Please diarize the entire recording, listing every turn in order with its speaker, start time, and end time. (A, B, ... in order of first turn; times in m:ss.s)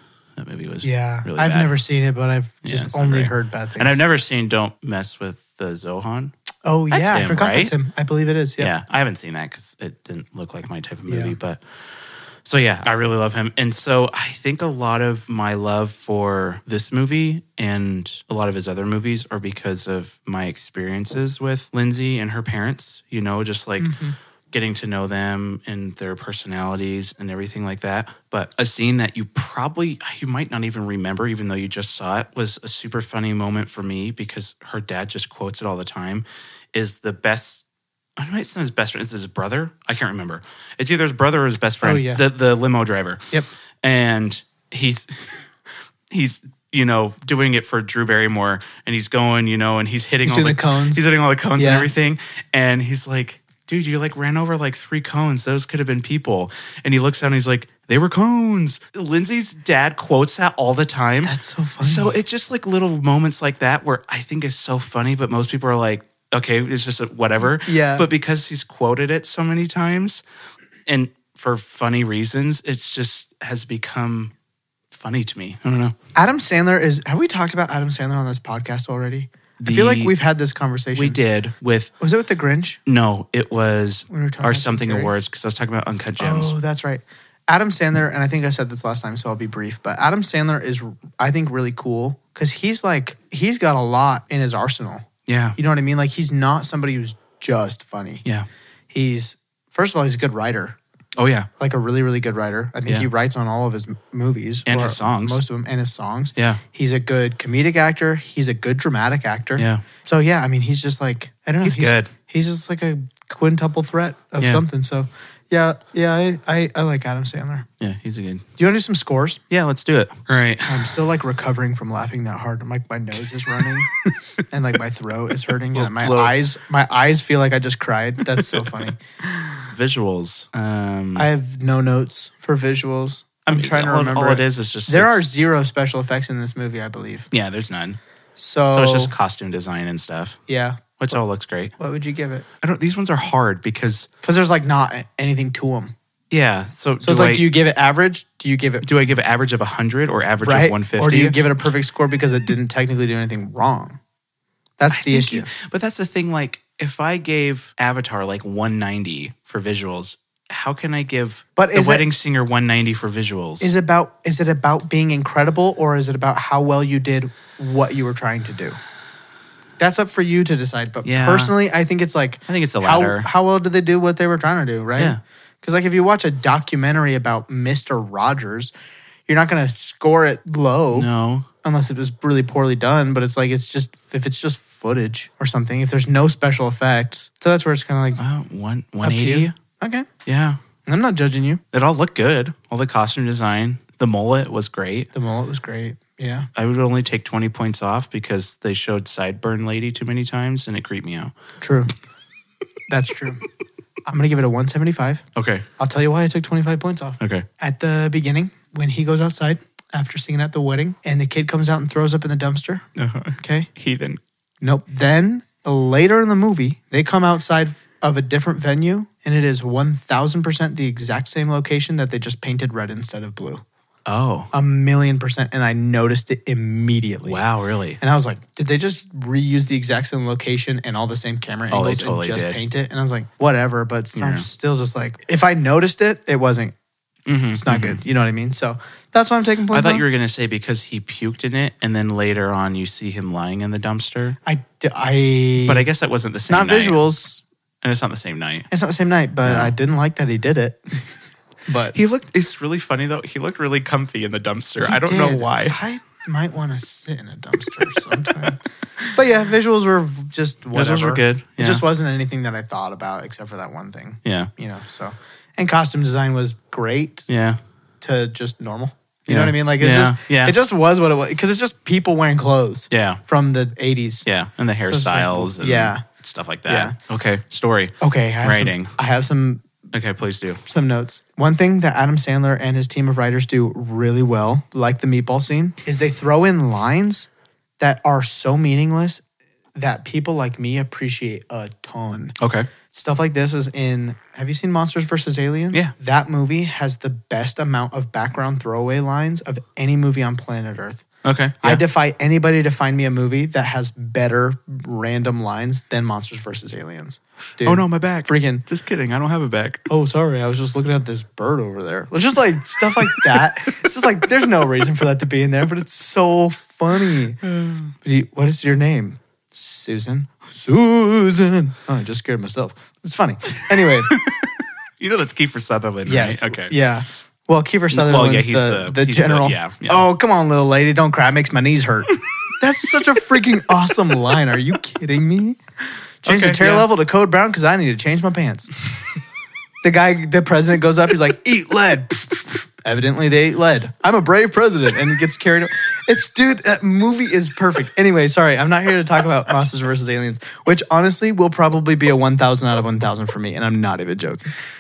0:00.4-0:01.7 A
0:00.8-0:04.0 B
0:02.6-0:06.3 A
0:06.6-0:08.7 B
0:06.9-0:07.7 A
0:08.6-0:11.6 A
0:11.1-0:11.3 B
0:12.4-0:24.0 A
0:23.8-0:24.2 B
0:24.5-0:37.6 A
0:38.2-0:43.2 A
0:41.8-0:42.2 B
0:43.8-0:45.5 A
0:46.1-1:10.2 A
0:50.2-0:51.0 B
0:51.6-0:51.9 B
1:01.2-1:02.2 B
1:07.4-1:08.1 B
1:10.9-1:14.3 A
1:14.9-1:16.0 A
1:16.2-1:21.2 B
1:19.6-1:20.1 A
1:20.9-1:21.9 A
1:22.0-1:22.8 B
1:22.9-1:26.5 A
1:24.1-1:25.1 B
1:26.2-1:38.2 B
1:35.3-1:35.6 A
1:38.9-1:40.8 B
1:41.2-1:41.5 A
1:41.6-1:57.7 B
1:44.7-1:45.4 A
1:46.4-1:46.6 A
1:49.6-1:49.8 A
1:51.6-1:52.1 A
1:57.8-1:58.5 A
1:58.6-1:59.4 B
1:59.5-2:00.9 A
2:00.6-2:03.9 B
2:04.5-2:09.0 B
2:05.7-2:06.4 A
2:08.4-2:11.3 A
2:11.2-2:17.3 B
2:13.5-2:15.2 A
2:17.3-2:18.0 A
2:18.4-2:19.1 B
2:18.7-2:20.4 A
2:20.5-2:21.2 B
2:21.0-2:21.7 A
2:21.8-2:22.5 B
2:22.6-2:24.1 A
2:24.2-2:25.9 B
2:26.3-2:27.5 A
2:27.0-2:28.9 B
2:28.8-2:31.4 A
2:30.4-2:34.0 B
2:34.8-2:35.5 B
2:34.9-2:43.7 A
2:41.6-2:42.1 B
2:43.6-2:48.8 B
2:49.8-2:58.7 B
2:51.0-2:51.5 A
2:52.5-2:53.3 A
2:59.3-3:01.1 B
3:00.9-3:01.5 A
3:01.6-3:08.2 B
3:08.2-3:09.6 A
3:09.0-3:10.1 B
3:10.3-3:10.6 A
3:10.8-3:11.6 B
3:11.7-3:15.1 A
3:15.1-3:16.5 B
3:16.6-3:21.3 A
3:21.6-3:21.9 B
3:22.9-3:23.5 B
3:24.1-3:25.2 B
3:25.4-3:25.7 A
3:25.8-3:32.8 B
3:27.2-3:27.4 A
3:33.0-3:34.2 A
3:33.4-3:33.7 B
3:34.6-3:43.6 B
3:44.1-3:44.5 A
3:44.5-3:47.4 B
3:47.2-3:48.0 A
3:48.0-3:56.7 B
3:51.7-3:52.6 A
3:54.2-3:54.5 A
3:57.3-3:58.0 A
3:57.5-4:00.0 B
3:59.7-4:04.4 A
4:04.4-4:05.9 B
4:05.6-4:07.0 A
4:06.5-4:07.4 B
4:07.8-4:08.7 A
4:08.7-4:10.8 B
4:09.4-4:09.7 A
4:11.7-4:12.0 B
4:11.9-4:15.8 A
4:14.8-4:27.3 B
4:18.1-4:18.5 A
4:20.7-4:21.8 A
4:24.2-4:24.5 A
4:27.3-4:27.6 A
4:28.0-4:34.3 B
4:29.3-4:30.6 A
4:32.9-4:33.2 A
4:34.3-4:38.9 A
4:34.9-4:36.0 B
4:36.7-4:37.0 B
4:38.0-4:39.7 B
4:39.9-4:40.6 A
4:40.7-4:49.2 B
4:49.8-4:52.4 B
4:52.4-4:52.7 A
4:52.9-5:01.0 B
5:01.2-5:01.8 A
5:01.6-5:08.6 B
5:07.6-5:09.9 A
5:09.9-5:17.4 B
5:17.4-5:17.9 A
5:18.0-5:24.2 B
5:23.7-5:26.8 A
5:26.0-5:35.6 B
5:27.9-5:30.1 A
5:36.2-5:38.7 B
5:36.2-5:36.9 A
5:39.8-5:54.5 B